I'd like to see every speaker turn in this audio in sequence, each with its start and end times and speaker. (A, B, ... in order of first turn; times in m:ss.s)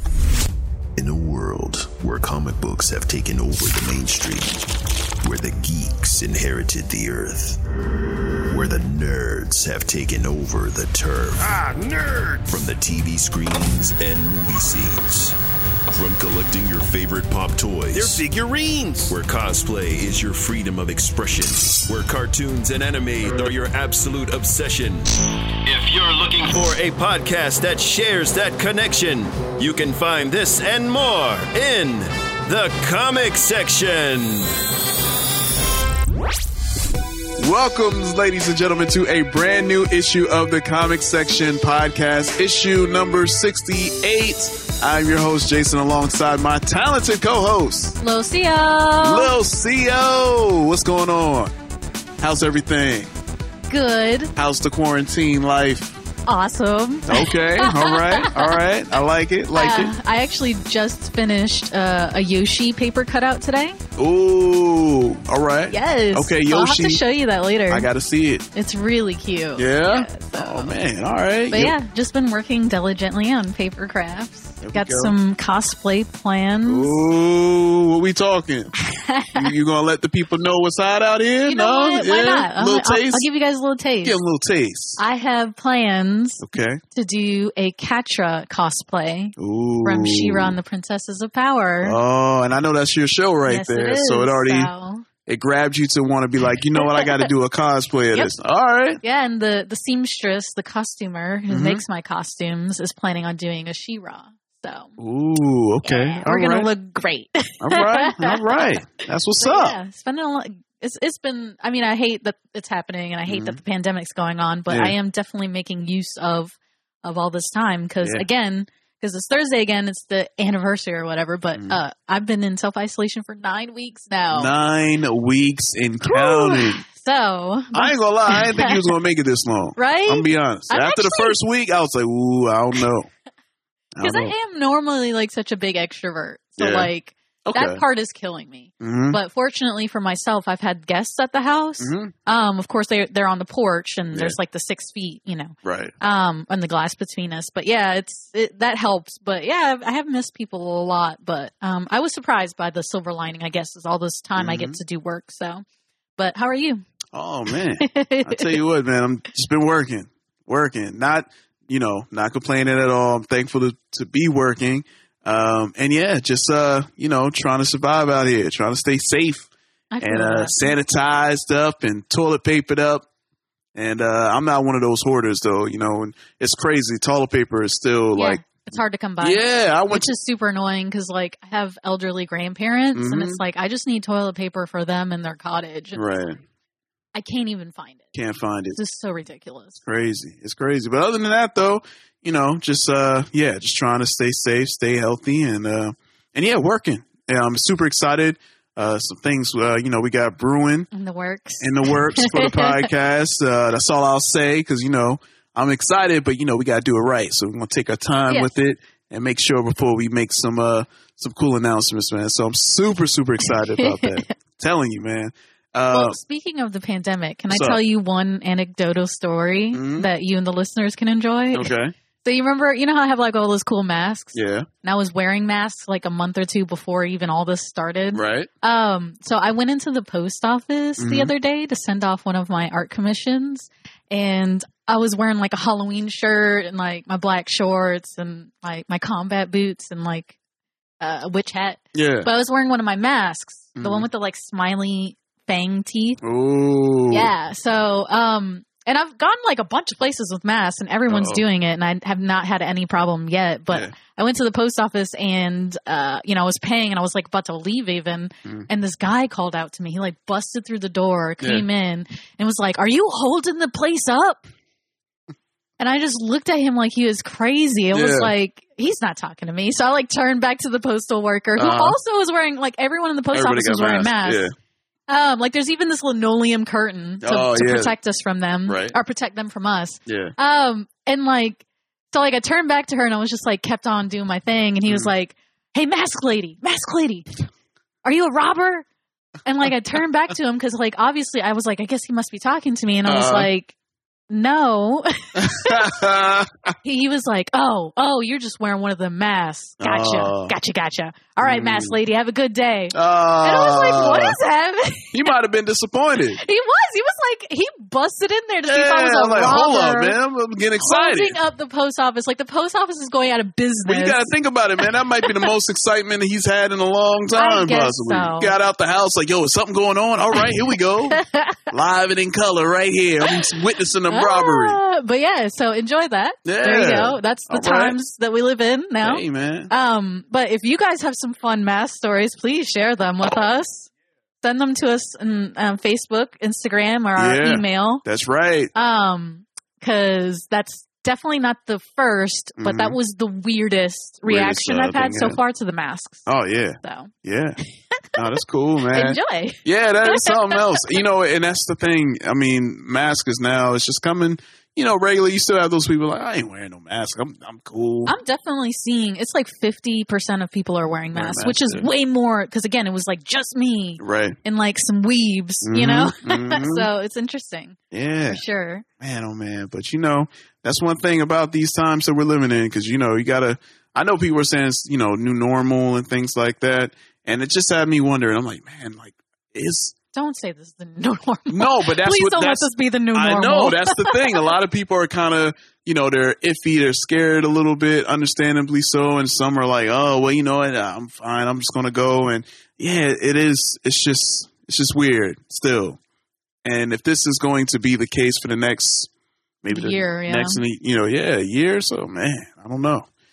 0:01.0-0:04.6 A
0:05.2-0:07.6 A
0:08.5-0:11.7 A
0:12.4-0:15.4 A
0:15.9-0:34.5 A
0:37.4-0:48.0 B
0:48.0-0:49.3 C
0:49.0-0:51.5 B
0:52.2-0:53.1 B
0:53.7-0:54.3 C
0:54.4-0:55.9 B
0:56.2-0:58.5 C
0:57.1-0:59.9 B
0:59.5-1:03.8 C
1:04.0-1:07.0 B
1:05.7-1:07.9 C
1:07.7-1:08.4 B
1:08.5-1:10.7 C
1:09.6-1:11.7 B
1:11.5-1:17.0 C
1:14.6-1:15.1 B
1:16.6-1:18.7 B
1:18.8-1:19.5 C
1:19.3-1:23.2 B
1:21.4-1:24.2 C
1:24.0-1:25.0 B
1:25.0-1:26.4 C
1:26.4-1:26.8 B
1:26.9-1:32.0 C
1:29.4-1:30.6 B
1:31.8-1:34.7 B
1:33.4-1:35.0 C
1:35.2-1:39.0 B
1:36.8-1:37.3 C
1:39.0-1:44.9 C
1:41.5-1:41.8 B
1:45.0-1:46.7 B
1:45.8-1:48.7 C
1:47.6-1:49.8 B
1:49.4-2:04.5 C
1:53.3-1:53.6 B
1:54.7-1:54.9 B
2:04.3-2:06.8 B
2:06.0-2:08.9 C
2:07.7-2:13.1 B
2:09.8-2:11.4 C
2:14.0-2:14.3 B
2:14.0-2:35.6 C
2:16.6-2:16.9 B
2:17.4-2:17.8 B
2:18.8-2:19.2 B
2:21.8-2:22.1 B
2:25.6-2:25.9 B
2:34.4-2:34.8 B
2:36.2-2:36.8 C
2:37.1-2:49.5 B
2:37.5-2:38.6 C
2:49.9-2:50.8 C
2:50.0-2:53.0 B
2:53.7-2:58.4 B
2:58.2-3:06.0 C
2:59.2-3:00.1 B
3:02.9-3:03.4 B
3:05.9-3:06.4 B
3:07.1-3:08.1 C
3:08.1-3:08.8 B
3:08.7-3:09.8 C
3:09.8-3:20.9 B
3:20.9-3:22.9 C
3:21.6-3:36.2 B
3:33.4-3:34.3 C
3:35.9-3:41.7 C
3:37.5-3:37.8 B
3:39.7-3:40.1 B
3:41.5-3:41.9 B
3:42.2-4:00.4 C
3:44.3-3:44.7 B
3:48.1-3:48.5 B
3:51.0-3:51.3 B
4:01.0-4:06.2 C
4:01.9-4:02.3 B
4:03.8-4:04.1 B
4:06.2-4:07.3 B
4:07.1-4:24.4 C
4:11.1-4:11.4 B
4:21.4-4:21.6 B
4:25.8-4:34.5 C
4:27.9-4:28.3 B
4:31.6-4:32.0 B
4:33.3-4:34.5 B
4:35.1-4:47.2 C
4:37.2-4:37.9 B
4:38.6-4:39.0 B
4:40.1-4:40.3 B
4:44.9-4:45.1 B
4:48.0-4:48.8 C
4:49.4-4:53.7 C
4:53.0-4:53.5 B
4:54.3-4:55.9 C
4:55.4-4:56.7 B
4:56.8-5:05.2 C
4:59.8-5:00.5 B
5:01.4-5:02.0 B
5:02.9-5:04.4 B
5:05.1-5:06.4 B
5:06.4-5:10.2 C
5:08.7-5:11.4 B
5:10.8-5:14.2 C
5:13.8-5:24.8 B
5:14.8-5:15.5 C
5:17.3-5:18.5 C
5:21.1-5:21.6 C
5:24.1-5:33.9 C
5:26.4-5:28.0 B
5:29.0-5:29.7 B
5:34.4-5:38.0 C
5:37.2-5:38.7 B
5:38.7-5:46.2 C
5:42.6-5:43.0 B
5:44.2-5:45.4 B
5:46.2-5:47.6 B
5:46.8-5:47.1 C
5:48.1-5:58.1 B
5:48.9-5:50.8 C
5:58.0-6:07.8 C
6:01.1-6:01.9 B
6:04.0-6:04.4 B
6:05.6-6:06.9 B
6:07.9-6:08.4 B
6:08.3-6:08.8 C
6:09.0-6:19.9 B
6:20.1-6:24.4 C
6:21.5-6:36.0 B
6:36.6-6:39.1 B
6:39.6-6:43.1 B
6:39.7-6:40.6 C